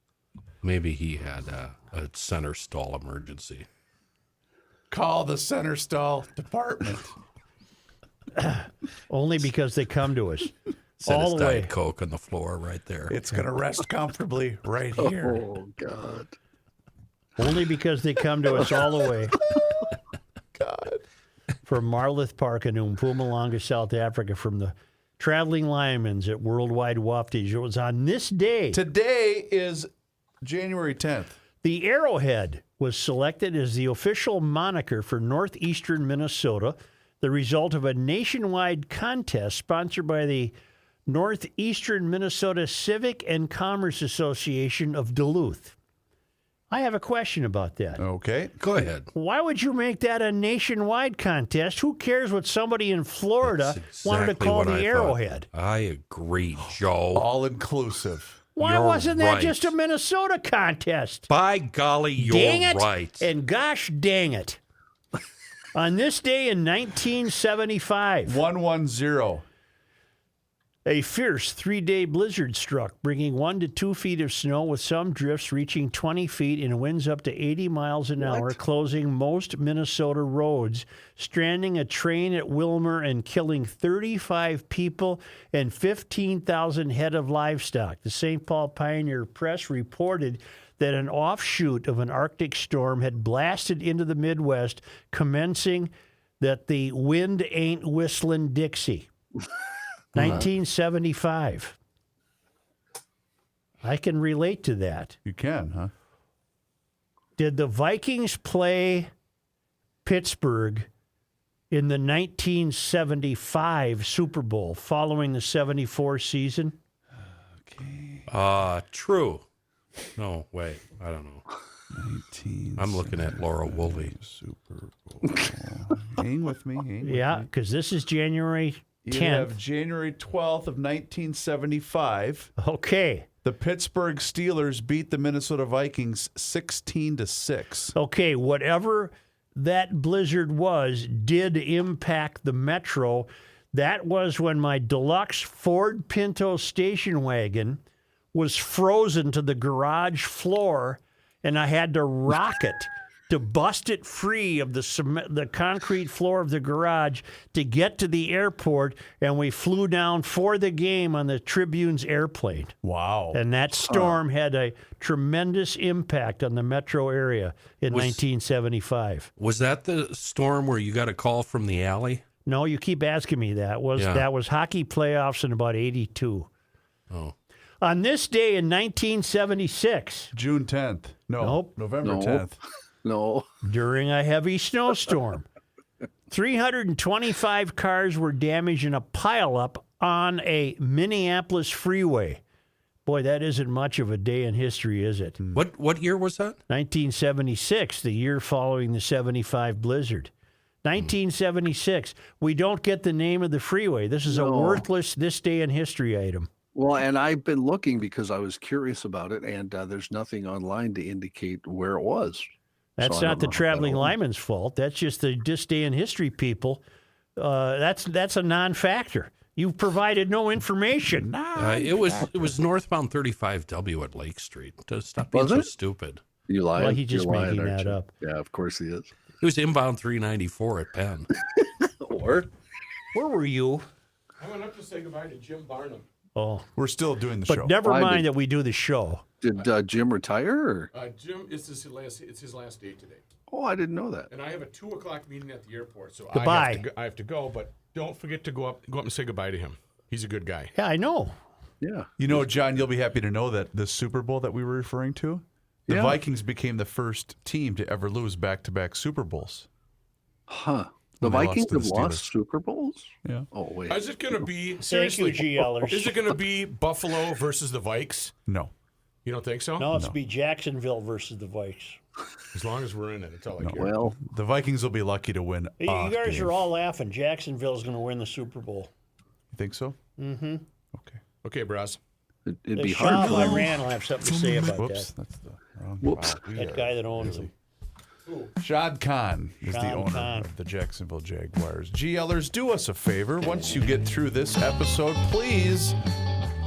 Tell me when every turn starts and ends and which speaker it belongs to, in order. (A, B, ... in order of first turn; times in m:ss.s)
0:00.6-0:03.7 A
0:04.9-0:07.2 B
0:08.4-0:11.7 C
0:11.0-0:13.2 A
0:13.1-0:15.4 B
0:15.0-0:16.4 D
0:17.4-0:19.4 C
0:20.6-0:21.0 B
0:21.6-0:28.8 C
0:28.7-0:29.9 B
0:30.4-0:31.4 B
0:31.6-0:40.6 C
0:41.1-0:45.8 C
0:46.7-0:48.0 C
0:48.0-0:48.6 B
0:48.6-0:49.1 A
0:49.1-0:55.5 C
0:53.4-0:57.3 A
0:57.1-0:58.5 B
0:58.6-1:01.3 C
0:58.6-0:59.8 A
1:01.3-1:03.3 A
1:02.2-1:04.6 C
1:05.7-1:08.4 C
1:08.3-1:09.4 B
1:10.8-1:39.1 C
1:18.2-1:18.6 D
1:40.1-1:41.8 C
1:43.8-1:45.2 C
1:45.2-1:45.9 B
1:47.4-1:49.1 C
1:50.0-1:50.9 C
1:51.7-1:56.8 C
1:57.6-1:58.3 B
1:58.3-1:59.4 A
2:00.2-2:01.4 A
2:01.9-2:07.5 B
2:02.8-2:04.1 A
2:07.0-2:09.6 C
2:09.0-2:12.5 B
2:12.6-2:13.3 C
2:13.4-2:18.0 B
2:18.0-2:27.8 C
2:28.3-2:42.7 C
2:42.8-2:44.2 B
2:43.3-2:49.3 C
2:47.9-2:48.2 A
2:49.4-2:52.2 A
2:52.5-2:56.5 C
2:54.0-2:54.3 A
2:57.8-3:00.3 C
3:00.3-3:02.6 B
3:01.4-3:01.7 C
3:02.0-3:02.5 D
3:03.0-3:03.5 D
3:03.6-3:05.5 C
3:06.3-3:12.4 C
3:13.1-3:15.4 C
3:15.4-3:15.7 B
3:15.5-3:16.6 A
3:16.7-3:20.3 C
3:20.8-3:26.5 C
3:24.3-3:24.9 D
3:26.7-3:32.5 D
3:33.0-3:36.8 C
3:33.0-3:34.2 D
3:37.4-3:41.3 C
3:41.1-3:42.5 B
3:41.6-3:46.2 A
3:45.3-3:45.7 D
3:46.5-3:49.1 D
3:46.8-3:48.1 C
3:49.4-3:51.3 A
3:51.8-3:52.5 D
3:53.1-3:53.8 C
3:54.4-3:56.1 E
3:56.4-3:56.7 C
3:56.8-3:57.8 B
3:57.5-3:59.2 C
3:57.8-3:58.3 D
3:59.4-4:00.9 D
4:00.9-4:03.2 E
4:03.5-4:04.3 D
4:04.3-4:10.7 E
4:06.3-4:06.9 C
4:10.8-4:11.4 C
4:11.8-4:12.4 D
4:12.2-4:19.7 B
4:15.9-4:16.2 D
4:20.5-4:24.1 D
4:21.2-4:22.3 B
4:23.9-4:28.3 E
4:24.9-4:26.2 C
4:28.5-4:28.7 B
4:29.2-4:29.9 E
4:29.8-4:32.0 C
4:32.5-4:33.9 E
4:33.6-4:36.6 B
4:33.8-4:34.2 D
4:35.8-4:38.9 C
4:39.5-4:40.0 B
4:40.2-4:40.6 C
4:40.9-4:41.2 B
4:41.4-4:42.0 E
4:42.5-4:43.7 D
4:42.8-4:45.1 C
4:43.4-4:43.6 B
4:44.3-4:47.5 B
4:46.0-4:46.3 D
4:46.5-4:47.5 C
4:48.3-4:48.5 E
4:48.6-4:56.0 B
4:49.7-4:50.5 C